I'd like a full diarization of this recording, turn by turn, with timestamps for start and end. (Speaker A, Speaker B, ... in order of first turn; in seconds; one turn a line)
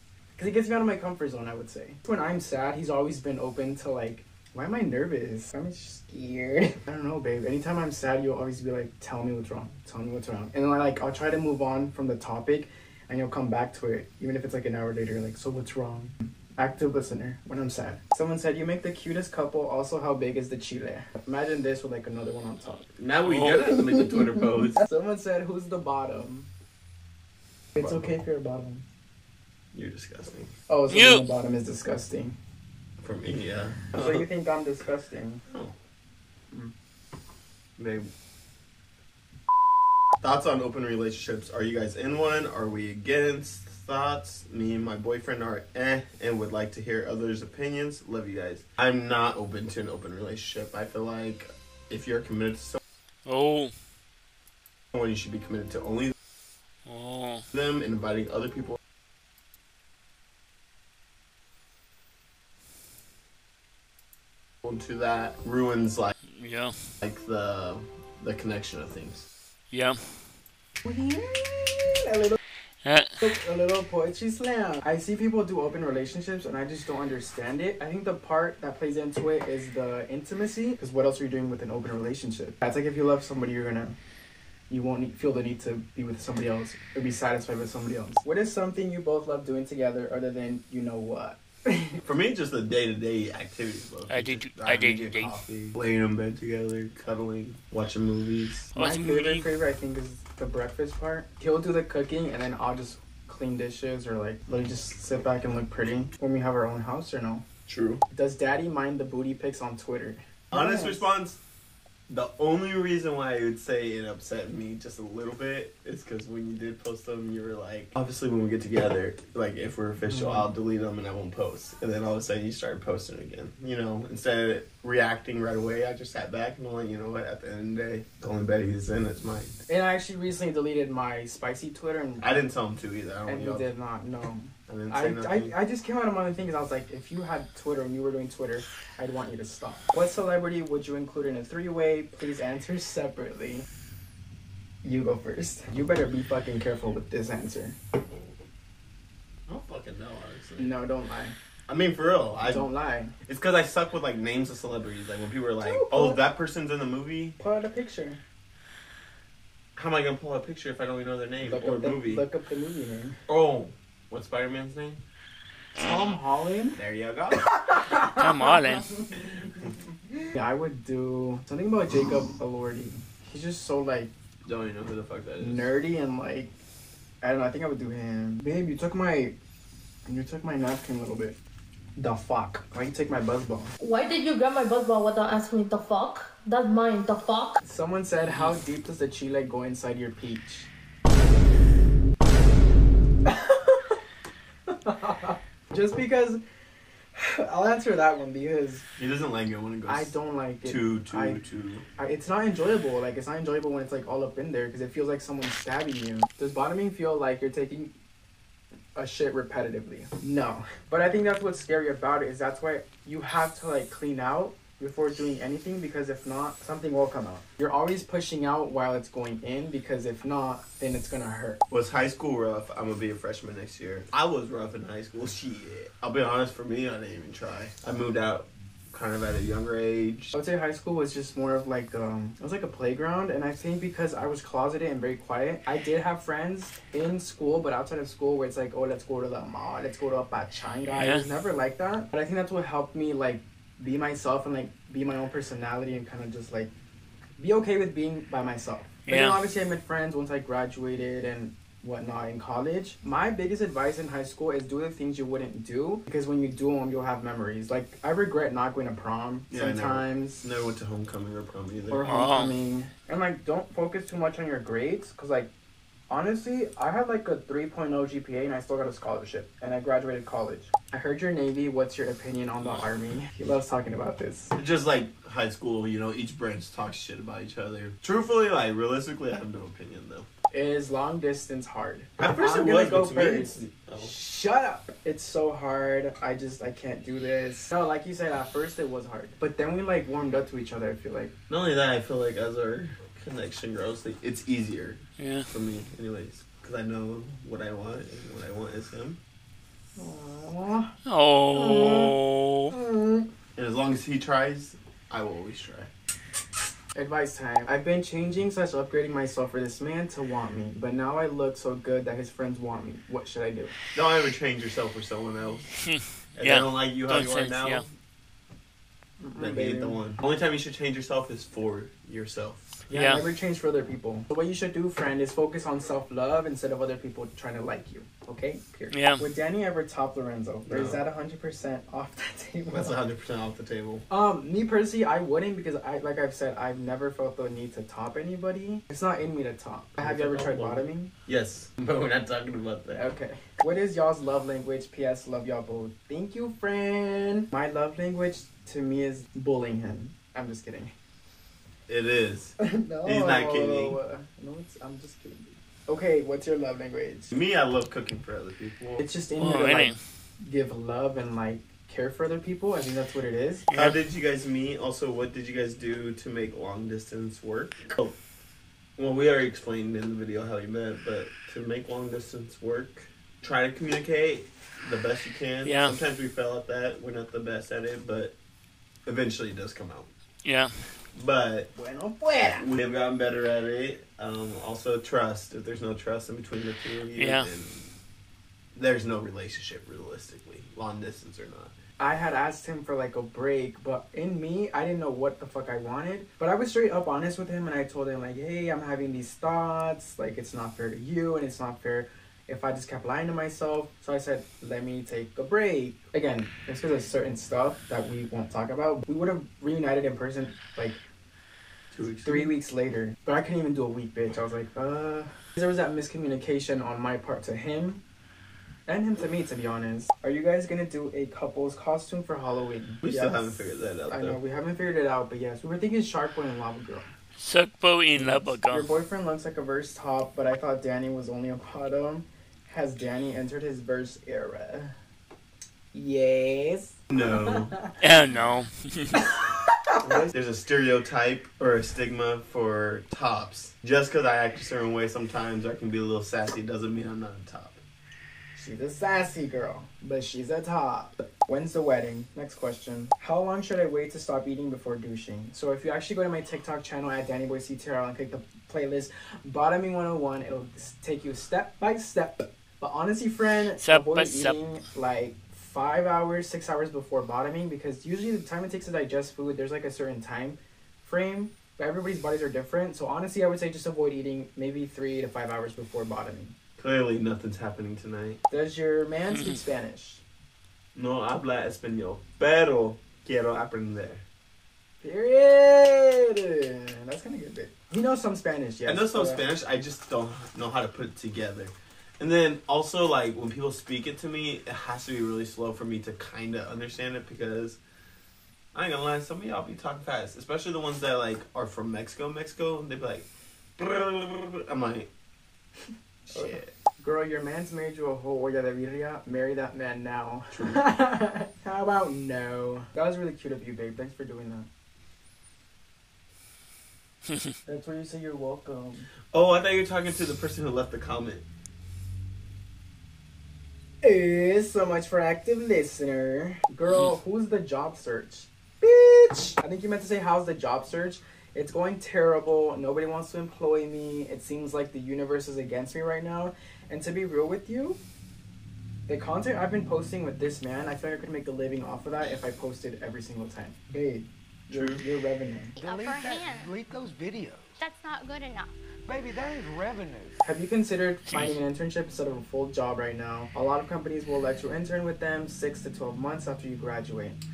Speaker A: 0.3-22.9
Speaker B: 23.0-24.8
Speaker C: 23.2-23.5
Speaker A: 24.8-26.5
Speaker A: 27.7-28.8
Speaker B: 27.8-28.1
Speaker B: 29.7-30.5
Speaker A: 30.7-32.4
Speaker C: 30.9-31.2
Speaker B: 33.0-34.2
Speaker A: 33.9-35.4
Speaker B: 35.5-35.7
Speaker B: 37.8-38.1
Speaker B: 40.2-52.8
Speaker C: 53.2-53.7
Speaker B: 54.9-56.1
Speaker C: 56.9-57.5
Speaker B: 57.5-58.8
Speaker B: 64.6-66.1
Speaker C: 66.3-66.8
Speaker B: 67.0-69.2
Speaker C: 69.7-70.2
Speaker A: 70.8-72.4
Speaker C: 72.8-73.2
Speaker A: 73.2-84.0
Speaker A: 84.7-92.0
Speaker B: 92.0-98.7
Speaker C: 94.1-95.3
Speaker C: 98.7-99.5
Speaker A: 98.8-107.4
Speaker B: 107.7-108.0
Speaker A: 108.1-111.0
Speaker B: 110.5-111.4
Speaker B: 112.1-129.6
Speaker A: 120.1-120.5
Speaker A: 129.7-132.5
Speaker B: 132.2-133.7
Speaker A: 133.2-143.7
Speaker B: 134.7-135.5
Speaker A: 144.8-147.8
Speaker B: 149.5-150.7
Speaker A: 150.6-151.3
Speaker B: 151.7-152.7
Speaker A: 152.4-153.1
Speaker B: 153.2-157.4
Speaker A: 155.6-156.2
Speaker A: 157.4-158.2
Speaker B: 159.8-162.2
Speaker A: 161.4-163.2
Speaker B: 163.3-165.0
Speaker A: 165.8-166.8
Speaker B: 166.8-167.7
Speaker A: 167.7-169.1
Speaker C: 168.1-168.9
Speaker A: 170.3-174.1
Speaker B: 174.4-175.7
Speaker A: 175.4-176.5
Speaker A: 177.2-179.3
Speaker A: 180.1-181.4
Speaker A: 182.0-183.7
Speaker D: 183.8-187.6
Speaker A: 187.6-190.7
Speaker A: 193.2-194.0
Speaker A: 194.7-196.4
Speaker A: 197.1-198.8
Speaker B: 199.0-200.1
Speaker A: 199.8-201.4
Speaker B: 200.6-201.8
Speaker A: 202.0-207.9
Speaker A: 208.9-221.6
Speaker B: 221.7-230.3
Speaker A: 230.3-246.7
Speaker C: 241.0-241.2
Speaker A: 247.4-260.4
Speaker C: 249.1-249.4
Speaker B: 259.5-262.0
Speaker A: 261.9-265.5
Speaker C: 262.1-262.5
Speaker A: 266.1-274.5
Speaker B: 274.5-280.3
Speaker A: 280.5-291.3
Speaker B: 282.2-284.1
Speaker B: 291.5-299.2
Speaker C: 295.2-295.5
Speaker A: 299.9-300.9
Speaker C: 301.1-302.7
Speaker A: 301.5-302.2
Speaker A: 302.7-303.3
Speaker B: 303.6-305.9
Speaker A: 306.9-313.7
Speaker B: 313.9-315.7
Speaker C: 315.8-317.8
Speaker B: 316.4-317.9
Speaker A: 319.2-320.0
Speaker B: 319.4-322.8
Speaker A: 322.9-333.0
Speaker C: 322.9-323.2
Speaker C: 328.9-329.2
Speaker B: 330.6-331.0
Speaker B: 332.7-334.1
Speaker A: 334.1-341.1
Speaker B: 340.0-343.0
Speaker A: 342.9-350.9
Speaker B: 351.9-354.0
Speaker A: 352.6-357.3
Speaker B: 357.3-359.0
Speaker A: 359.0-363.7
Speaker C: 359.4-360.0
Speaker C: 363.7-364.0
Speaker B: 363.7-368.2
Speaker B: 369.0-378.4
Speaker C: 375.6-376.0
Speaker B: 379.1-380.1
Speaker C: 380.4-380.7
Speaker B: 381.1-381.7
Speaker A: 381.7-382.6
Speaker B: 382.4-387.9
Speaker C: 387.2-387.5
Speaker B: 388.7-391.7
Speaker A: 392.0-411.0
Speaker B: 411.9-412.5
Speaker A: 412.2-418.0
Speaker A: 418.9-427.1
Speaker B: 423.0-424.4
Speaker C: 427.4-428.9
Speaker A: 428.1-434.9
Speaker A: 435.9-437.9
Speaker B: 437.1-437.8
Speaker C: 438.0-439.2
Speaker B: 440.0-447.8
Speaker A: 448.5-476.6
Speaker C: 463.8-464.6
Speaker B: 476.8-478.4
Speaker A: 478.5-480.2
Speaker B: 480.9-484.2
Speaker A: 485.0-489.4
Speaker B: 488.9-497.8
Speaker B: 498.7-505.1
Speaker B: 506.3-506.7
Speaker A: 506.3-514.7
Speaker B: 510.5-510.8
Speaker A: 517.6-519.1
Speaker B: 519.3-521.4
Speaker A: 524.0-538.0
Speaker A: 539.1-545.7
Speaker B: 544.7-545.0
Speaker E: 545.8-546.7
Speaker F: 545.8-547.8
Speaker E: 547.8-548.7
Speaker F: 549.1-550.4
Speaker A: 550.4-557.4